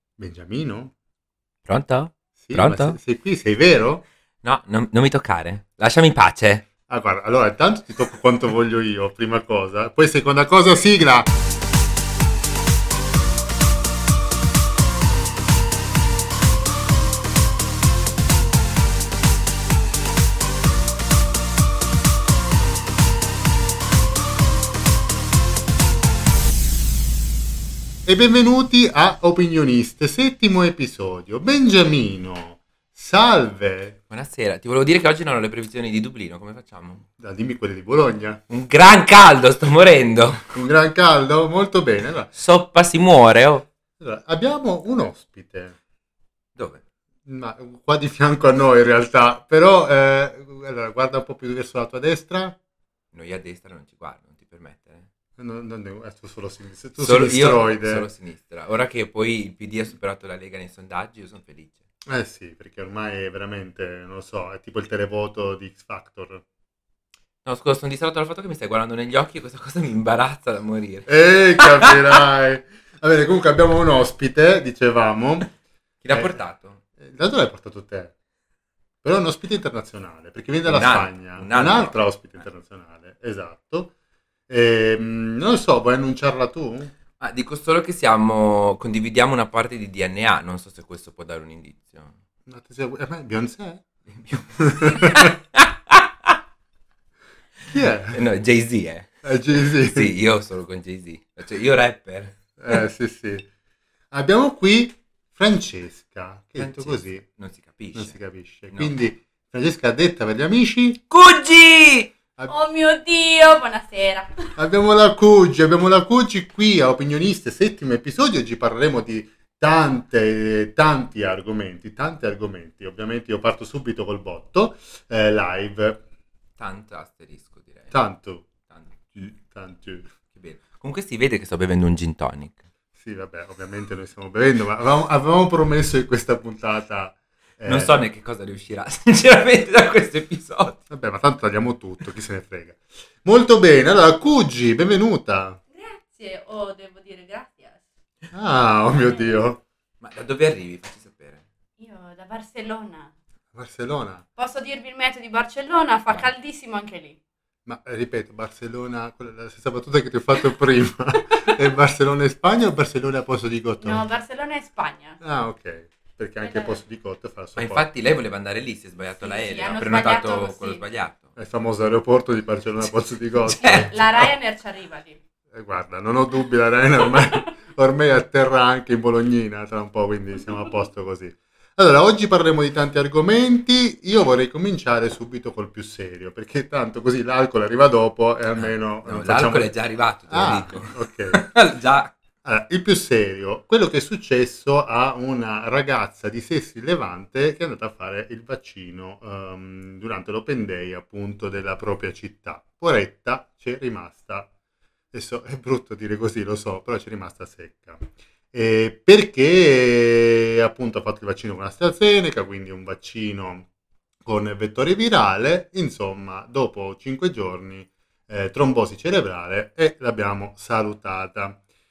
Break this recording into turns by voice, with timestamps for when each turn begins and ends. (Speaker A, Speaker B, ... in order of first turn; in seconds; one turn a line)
Speaker A: 0.2-0.9
Speaker B: 1.6-3.0
Speaker A: 2.4-4.0
Speaker B: 4.4-6.7
Speaker A: 6.9-11.3
Speaker A: 28.0-34.0
Speaker B: 34.1-37.0
Speaker A: 37.2-38.4
Speaker B: 38.5-40.5
Speaker A: 40.5-42.3
Speaker B: 42.3-43.6
Speaker A: 44.0-45.8
Speaker B: 46.5-46.8
Speaker A: 47.2-52.5
Speaker B: 53.1-55.1
Speaker A: 55.4-58.1
Speaker B: 57.0-61.8
Speaker A: 62.0-66.4
Speaker B: 67.4-71.9
Speaker A: 71.0-75.5
Speaker B: 76.0-76.8
Speaker A: 76.1-76.4
Speaker A: 77.0-78.1
Speaker A: 79.0-83.9
Speaker B: 80.6-82.0
Speaker A: 84.5-86.9
Speaker B: 87.2-92.2
Speaker A: 92.5-93.8
Speaker B: 94.1-96.4
Speaker A: 94.5-95.3
Speaker A: 97.7-98.2
Speaker B: 98.1-99.2
Speaker A: 99.2-100.1
Speaker B: 99.8-102.4
Speaker A: 102.6-103.5
Speaker A: 104.1-107.2
Speaker B: 106.5-109.0
Speaker A: 107.9-111.0
Speaker B: 111.1-112.1
Speaker C: 112.5-114.5
Speaker A: 114.5-126.0
Speaker B: 126.6-127.9
Speaker A: 127.9-128.5
Speaker B: 128.7-128.9
Speaker A: 129.1-130.1
Speaker B: 130.3-132.6
Speaker A: 132.9-137.9
Speaker B: 137.7-140.8
Speaker A: 140.9-145.6
Speaker C: 145.7-147.8
Speaker A: 148.3-149.6
Speaker C: 148.9-149.4
Speaker B: 150.0-151.4
Speaker C: 151.8-153.1
Speaker A: 153.5-154.2
Speaker C: 154.4-157.2
Speaker A: 157.7-164.0
Speaker C: 163.8-165.2
Speaker A: 165.2-167.9
Speaker C: 166.4-166.8
Speaker B: 167.6-171.3
Speaker C: 169.2-170.8
Speaker A: 171.3-174.3
Speaker B: 173.4-173.9
Speaker C: 173.5-175.2
Speaker A: 175.5-189.7
Speaker B: 188.5-192.1
Speaker A: 190.3-191.5
Speaker A: 192.4-204.5
Speaker A: 205.1-213.7
Speaker A: 214.2-221.6